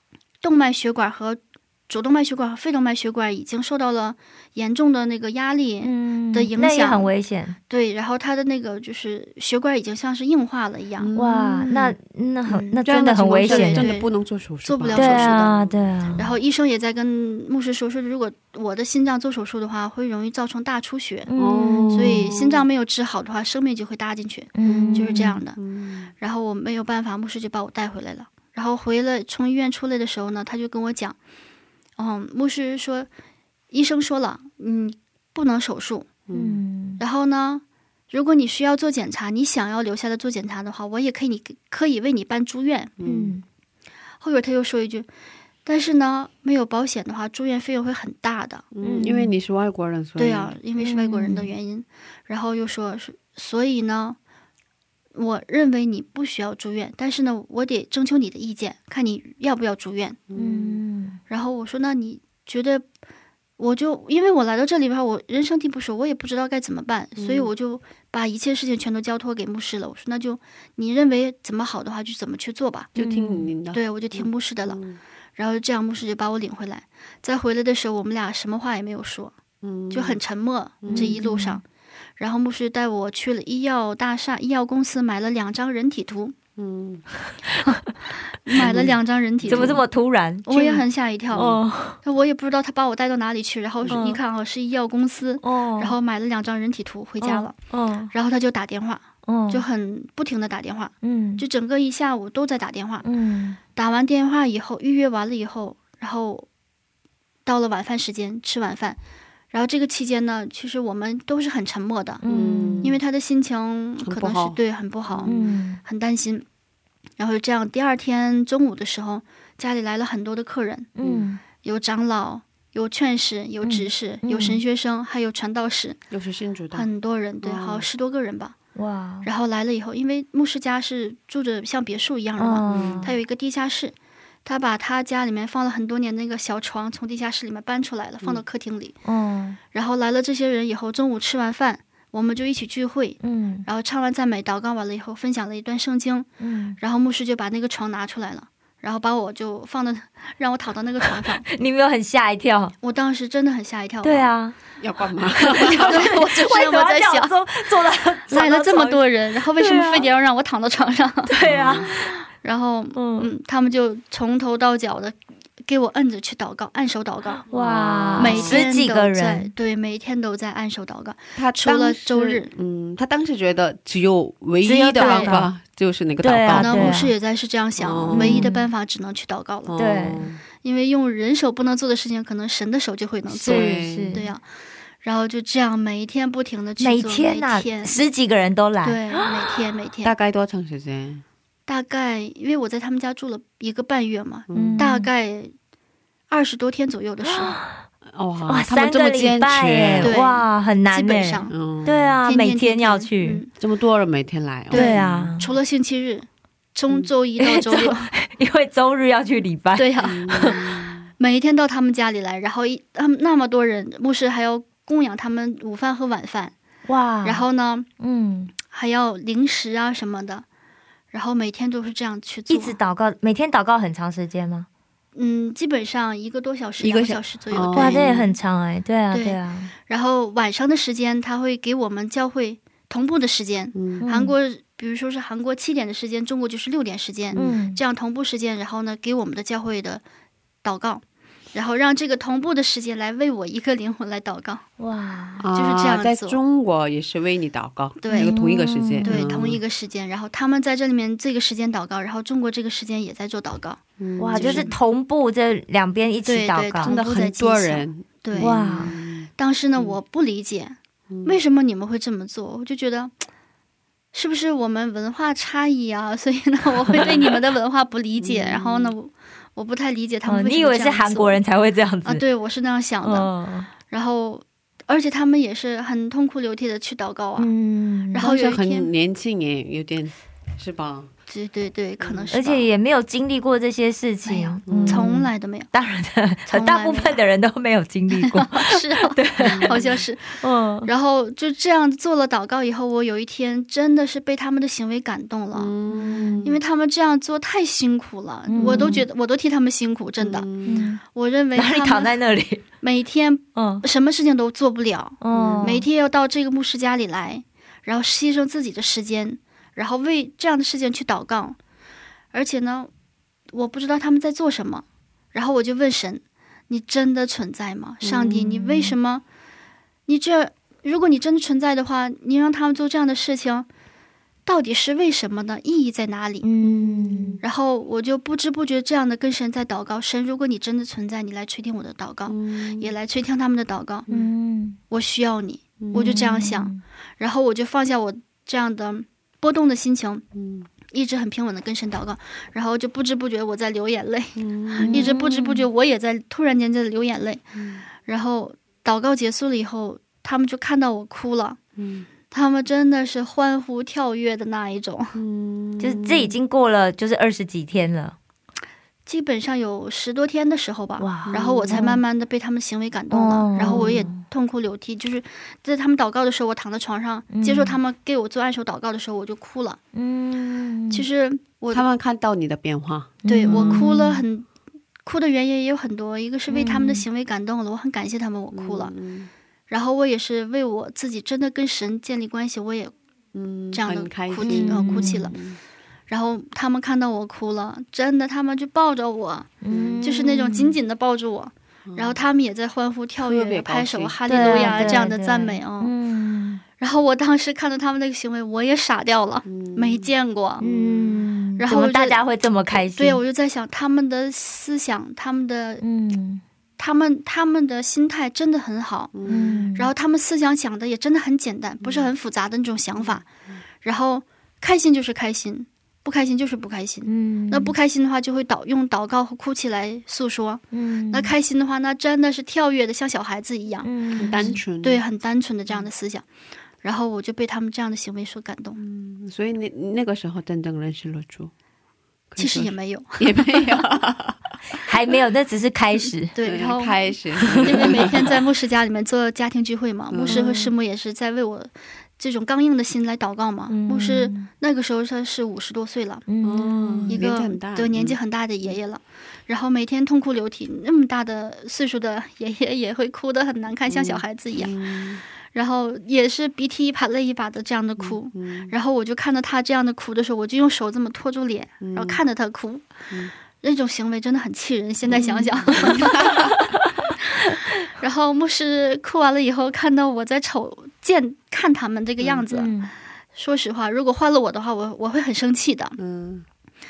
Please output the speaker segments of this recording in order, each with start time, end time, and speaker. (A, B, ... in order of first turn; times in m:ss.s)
0:00.4-0:07.1 A
0:05.8-0:07.6 B
0:07.7-0:11.1 A
0:11.0-0:12.0 C
0:11.2-0:13.9 B
0:12.5-0:12.8 A
0:12.8-0:15.9 C
0:13.4-0:14.1 A
0:14.6-0:15.5 A
0:14.9-0:16.2 B
0:16.2-0:21.3 A
0:21.3-0:22.3 B
0:21.4-0:22.6 C
0:21.9-0:25.6 A
0:24.6-0:25.4 B
0:24.6-0:26.1 C
0:26.2-0:31.2 A
0:32.0-0:33.1 A
0:33.7-0:36.1 A
0:36.3-0:36.6 C
0:36.3-0:37.0 B
0:37.0-0:43.0 A
0:43.0-0:43.4 C
0:43.0-0:43.4 B
0:44.2-0:45.1 A
0:45.6-0:48.7 A
0:48.7-0:50.6 C
0:48.8-0:49.3 B
0:50.2-0:54.2 A
0:50.8-0:51.5 B
0:55.2-1:00.2 A
1:00.3-1:00.8 C
1:00.4-1:01.2 B
1:01.3-1:02.8 A
1:03.6-1:12.9 A
1:07.2-1:07.5 C
1:13.0-1:15.0 C
1:13.0-1:13.5 B
1:13.7-1:14.8 A
1:15.4-1:19.4 A
1:19.6-1:20.2 C
1:19.9-1:21.6 A
1:20.8-1:21.2 C
1:20.9-1:21.6 B
1:22.2-1:26.4 A
1:26.6-1:27.0 C
1:28.5-1:29.8 A
1:28.6-1:29.8 C
1:29.5-1:30.8 B
1:30.5-1:37.6 A
1:31.3-1:31.6 C
1:31.4-1:32.0 B
1:33.9-1:34.2 B
1:35.4-1:36.0 B
1:37.2-1:38.1 B
1:38.1-1:43.1 A
1:39.3-1:39.6 B
1:41.0-1:41.4 B
1:43.0-1:43.6 B
1:43.8-1:46.5 A
1:47.5-1:49.0 A
1:49.5-1:52.2 A
1:52.2-1:52.9 B
1:52.2-1:53.0 C
1:52.8-1:56.4 A
1:54.0-1:55.5 C
1:55.3-1:55.8 B
1:57.2-2:00.9 A
2:01.0-2:01.4 B
2:01.0-2:01.3 C
2:01.6-2:06.0 A
2:03.6-2:04.6 B
2:06.1-2:06.9 C
2:06.7-2:08.6 A
2:07.4-2:07.9 C
2:08.8-2:09.3 B
2:09.2-2:13.9 A
2:12.4-2:13.1 B
2:12.7-2:13.1 C
2:14.4-2:19.0 A
2:19.1-2:19.6 B
2:19.7-2:26.3 A
2:23.2-2:23.7 B
2:26.4-2:26.8 B
2:26.8-2:31.5 A
2:31.5-2:32.7 B
2:32.8-2:34.3 A
2:34.0-2:34.6 B
2:34.8-2:36.1 C
2:35.4-2:40.0 B
2:35.6-2:37.3 A
2:38.3-2:41.3 A
2:41.3-2:42.2 B
2:41.4-2:41.9 C
2:42.4-2:47.5 A
2:43.0-2:43.3 B
2:47.5-2:49.5 B
2:47.5-2:48.6 C
2:48.2-2:52.5 A
2:51.4-2:57.0 C
2:54.6-2:55.5 B
2:55.0-2:55.4 A
2:56.2-2:57.1 B
2:56.5-2:59.7 A
2:57.8-2:58.5 C
2:58.1-2:58.6 B
2:59.7-3:00.4 C
2:59.8-3:00.3 B
3:00.6-3:04.4 A
3:03.3-3:04.3 C
3:03.4-3:04.2 B
3:05.0-3:08.0 A
3:06.8-3:09.0 B
3:08.8-3:10.1 A
3:10.0-3:11.2 C
3:11.7-3:15.5 A
3:14.5-3:14.9 C
3:14.6-3:15.1 B
3:16.3-3:17.6 A
3:17.3-3:17.8 B
3:18.0-3:20.2 C
3:18.5-3:23.4 B
3:20.0-3:21.6 A
3:21.5-3:22.2 C
3:22.2-3:23.5 A
3:23.6-3:25.4 C
3:24.7-3:28.1 A
3:24.7-3:25.5 B
3:27.4-3:30.5 B
3:29.8-3:30.3 A
3:30.0-3:31.1 C
3:31.2-3:36.6 A
3:36.9-3:37.4 B
3:37.2-3:37.9 A
3:38.0-3:38.5 B
3:38.7-3:40.4 A
3:41.1-3:42.8 A
3:42.5-3:44.7 B
3:45.2-3:48.2 A
3:46.8-3:48.3 C
3:47.8-3:49.7 B
3:49.1-4:00.0 A
3:53.7-3:54.1 C
3:54.0-3:54.3 B
3:57.4-3:57.8 B
4:00.6-4:01.0 A
4:01.5-4:04.6 A
4:04.8-4:05.4 B
4:05.4-4:09.6 C
4:05.6-4:06.4 A
4:08.0-4:08.4 A
4:08.1-4:09.2 B
4:09.0-4:14.8 A
4:14.0-4:14.7 C
4:14.2-4:16.9 B
4:16.3-4:23.2 A
4:16.8-4:20.0 C
4:18.4-4:18.9 B
4:21.1-4:21.4 C
4:24.1-4:31.4 A
4:28.2-4:28.9 C
4:30.3-4:32.2 B
4:32.0-4:33.3 A
4:33.0-4:33.7 B
4:33.9-4:37.5 A
4:37.4-4:38.3 B
4:38.1-4:38.9 A
4:38.2-4:41.1 C
4:41.3-4:42.7 A
4:42.0-4:42.3 C
4:42.3-4:49.8 B
4:44.2-4:45.7 A
4:44.7-4:45.2 C
4:46.5-4:47.2 A
4:48.1-4:50.2 A
4:49.4-4:50.0 C
4:50.4-4:50.9 B
4:50.9-4:55.7 A
4:55.5-4:56.6 C
4:56.4-5:00.5 A
4:58.5-4:59.0 B
4:58.6-4:59.0 C
5:00.2-5:00.9 C
5:00.7-5:01.0 B
5:01.1-5:02.1 A
5:01.6-5:02.6 B
5:02.8-5:11.6 A
5:03.6-5:03.8 B
5:05.2-5:05.8 B
5:05.3-5:05.8 C
5:12.3-5:12.9 A
5:13.5-5:19.2 A
5:18.0-5:18.4 C
5:18.3-5:18.9 B
5:20.1-5:23.7 A
5:24.5-5:26.5 A
5:26.4-5:27.4 B
5:26.6-5:27.4 C
5:27.4-5:34.1 A
5:32.3-5:32.9 C
5:34.1-5:34.8 B
5:34.9-5:40.2 A
5:35.8-5:36.3 C
5:35.9-5:36.8 B
5:40.3-5:40.7 C
5:40.9-5:47.4 A
5:44.4-5:45.1 C
5:44.8-5:45.7 B
5:47.6-5:47.9 C
5:48.0-5:51.6 A
5:51.8-5:52.1 C
5:52.3-5:55.2 A
5:55.2-5:56.4 C
5:55.8-5:58.2 B
5:59.1-6:09.8 A
6:01.0-6:02.0 B
6:01.2-6:01.9 C
6:03.1-6:04.2 B
6:03.6-6:04.0 C
6:07.3-6:07.8 B
6:10.0-6:11.0 B
6:10.9-6:11.8 A
6:11.7-6:13.9 C
6:13.2-6:14.2 B
6:13.3-6:14.5 A
6:15.1-6:18.9 A
6:16.5-6:17.0 B
6:18.5-6:19.3 C
6:19.7-6:22.9 A
6:23.3-6:25.6 C
6:23.7-6:25.4 A
6:24.4-6:25.3 B
6:26.1-6:29.5 A
6:29.6-6:30.8 B
6:29.7-6:30.1 C
6:30.0-6:35.9 A
6:31.9-6:32.2 C
6:33.2-6:35.1 C
6:34.3-6:36.6 B
6:36.8-6:40.6 A
6:39.4-6:41.2 C
6:40.6-6:43.2 B
6:41.6-6:45.8 A
6:45.8-6:46.4 B
6:46.8-6:49.2 A
6:49.1-6:49.6 C
6:49.3-6:49.9 B
6:49.8-6:53.3 A
6:51.8-6:52.1 C
6:53.0-6:53.6 C
6:53.8-7:06.3 A
6:57.1-6:57.7 B
7:00.7-7:01.3 B
7:03.8-7:04.6 B
7:04.2-7:05.0 C
7:06.8-7:08.8 A
7:08.8-7:11.5 C
7:12.3-7:14.4 C
7:12.4-7:13.8 A
7:14.8-7:16.3 B
7:16.3-7:26.3 A
7:16.4-7:18.3 C
7:20.1-7:20.5 C
7:20.3-7:20.7 B
7:23.7-7:24.5 B
7:26.3-7:27.2 B
7:26.4-7:28.7 C
7:27.1-7:34.8 A
7:33.9-7:35.2 C
7:35.5-7:42.9 A
7:38.0-7:38.8 C
7:41.8-7:42.2 C
7:43.6-7:46.5 A
7:45.1-7:46.6 C
7:45.2-7:45.9 B
7:48.0-7:52.8 A
7:52.5-7:52.9 B
7:53.4-7:56.0 A
7:56.0-7:56.4 C